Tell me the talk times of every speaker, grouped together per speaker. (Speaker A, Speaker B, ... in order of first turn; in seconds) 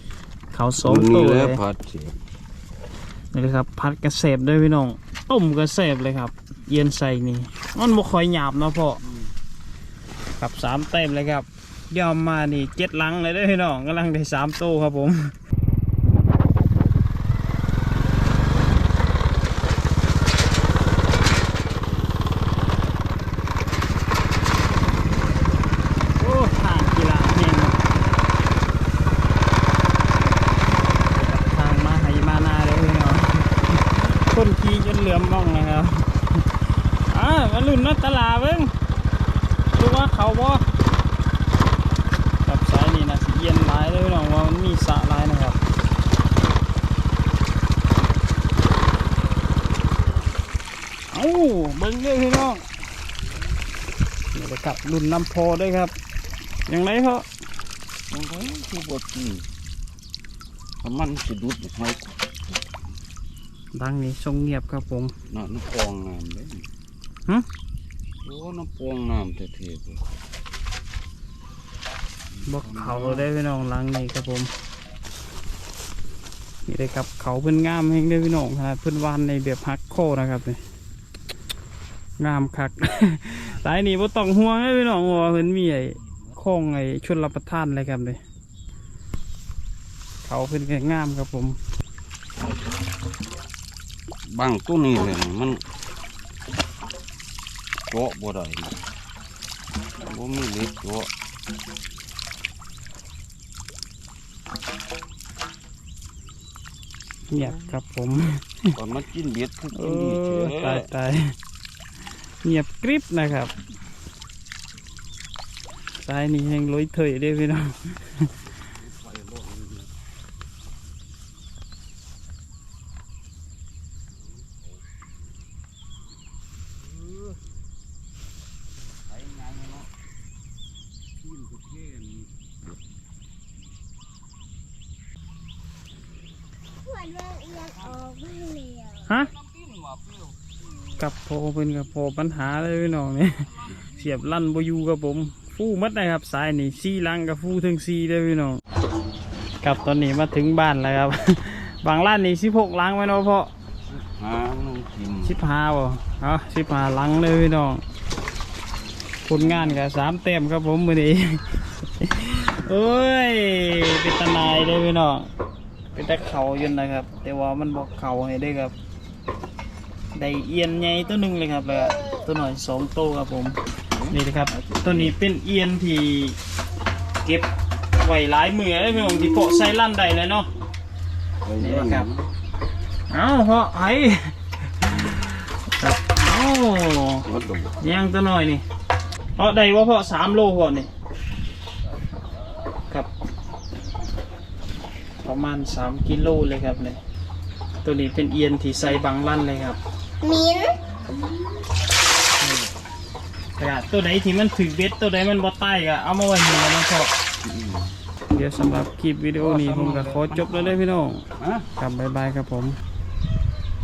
Speaker A: 0.5-1.6, 3.3-9.0, 10.4-15.3, 26.2-27.8, 31.1-36.4, 37.1-38.7, 39.7-40.7, 42.4-45.6, 51.1-52.6, 54.3-55.9, 56.7-57.2, 63.7-65.1, 72.5-74.5, 76.7-80.6, 82.2-88.2, 90.2-91.6, 107.3-108.7, 109.7-111.3, 112.4-113.5, 116.0-118.3, 139.1-139.3, 141.0-148.6, 149.6-153.5, 155.2-157.8, 159.2-165.3, 165.9-168.7, 170.2-173.6, 174.1-176.4, 177.2-180.5, 181.6-182.1, 183.1-187.3, 187.8-188.6, 189.4-190.9, 195.2-197.0, 197.8-199.8, 203.6-207.1, 208.3-211.2, 211.8-212.8
Speaker B: 0.8-2.2, 58.1-59.5, 60.8-62.2, 65.3-66.7, 68.2-70.2, 72.3-73.3, 94.3-95.6, 97.9-98.8, 100.0-101.1, 108.8-110.9, 118.8-119.9, 129.1-129.9, 131.2-132.3, 139.2-140.3, 153.8-155.4, 159.3-159.8, 173.9-175.1, 181.4-182.3, 187.2-187.8, 207.4-207.9, 209.4-210.8, 211.4-211.7
Speaker C: 136.8-139.1, 200.2-200.8